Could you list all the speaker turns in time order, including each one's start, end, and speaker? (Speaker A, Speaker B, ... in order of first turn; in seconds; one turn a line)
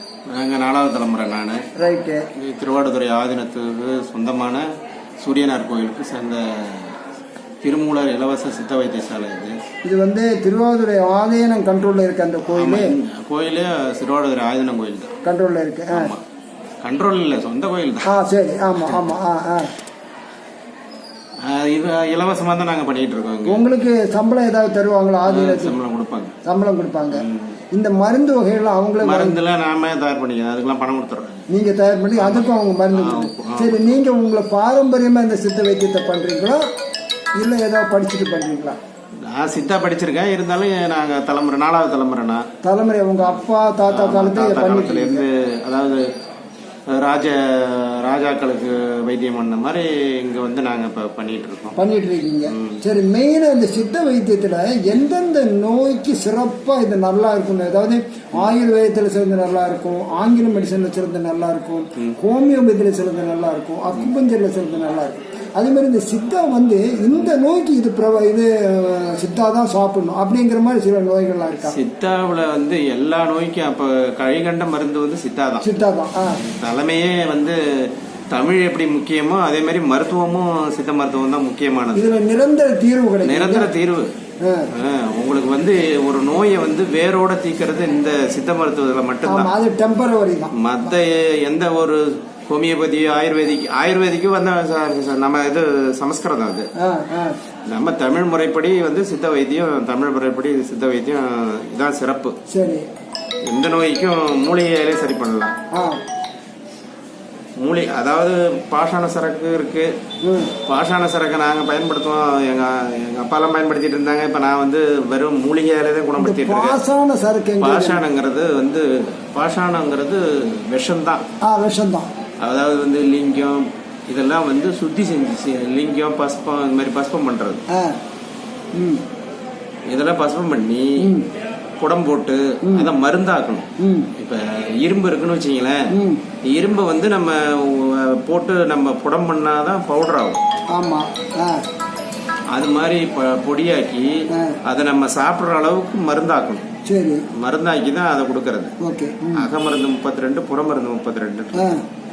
Speaker A: 0.3-1.7
Speaker B: 1.8-2.3
Speaker A: 2.3-4.6
Speaker A: 5.2-7.0
Speaker A: 7.6-9.6
Speaker B: 9.8-12.9
Speaker A: 12.5-15.1
Speaker B: 15.2-16.1
Speaker A: 15.9-16.2
Speaker A: 16.8-18.1
Speaker B: 18.1-19.7
Speaker A: 21.4-23.6
Speaker B: 23.5-25.8
Speaker A: 25.2-26.4
Speaker B: 26.4-29.4
Speaker A: 27.1-27.6
Speaker A: 29.0-31.5
Speaker B: 31.5-36.6
Speaker A: 32.2-34.0
Speaker B: 37.4-38.8
Speaker A: 39.2-42.5
Speaker B: 42.6-45.2
Speaker A: 43.9-46.1
Speaker A: 46.9-51.8
Speaker B: 51.8-71.8
Speaker A: 52.5-52.8
Speaker A: 71.7-75.7
Speaker B: 75.6-76.4
Speaker A: 76.2-82.1
Speaker B: 82.0-83.7
Speaker A: 83.2-84.1
Speaker B: 84.4-84.7
Speaker A: 84.7-89.5
Speaker B: 89.2-90.5
Speaker A: 90.5-96.7
Speaker B: 96.8-97.3
Speaker A: 97.7-102.4
Speaker B: 102.5-102.9
Speaker A: 103.5-105.5
Speaker B: 105.7-106.0
Speaker A: 107.6-109.9
Speaker B: 110.2-110.5
Speaker A: 110.6-116.8
Speaker B: 116.2-118.0
Speaker A: 117.6-121.2
Speaker B: 121.5-122.1
Speaker A: 122.4-127.6
Speaker B: 127.7-128.0
Speaker B: 128.8-129.0
Speaker A: 129.9-131.1
Speaker B: 131.0-131.3
Speaker A: 131.8-135.9
Speaker B: 132.6-132.9
Speaker B: 133.8-134.1
Speaker B: 135.9-136.2
Speaker A: 136.5-140.4
Speaker B: 140.7-141.6
Speaker A: 142.5-146.7
Speaker B: 144.3-144.6
Speaker B: 146.9-147.3
Speaker A: 147.3-148.8
Speaker B: 148.8-149.5
Speaker A: 149.3-151.8
Speaker B: 151.5-151.8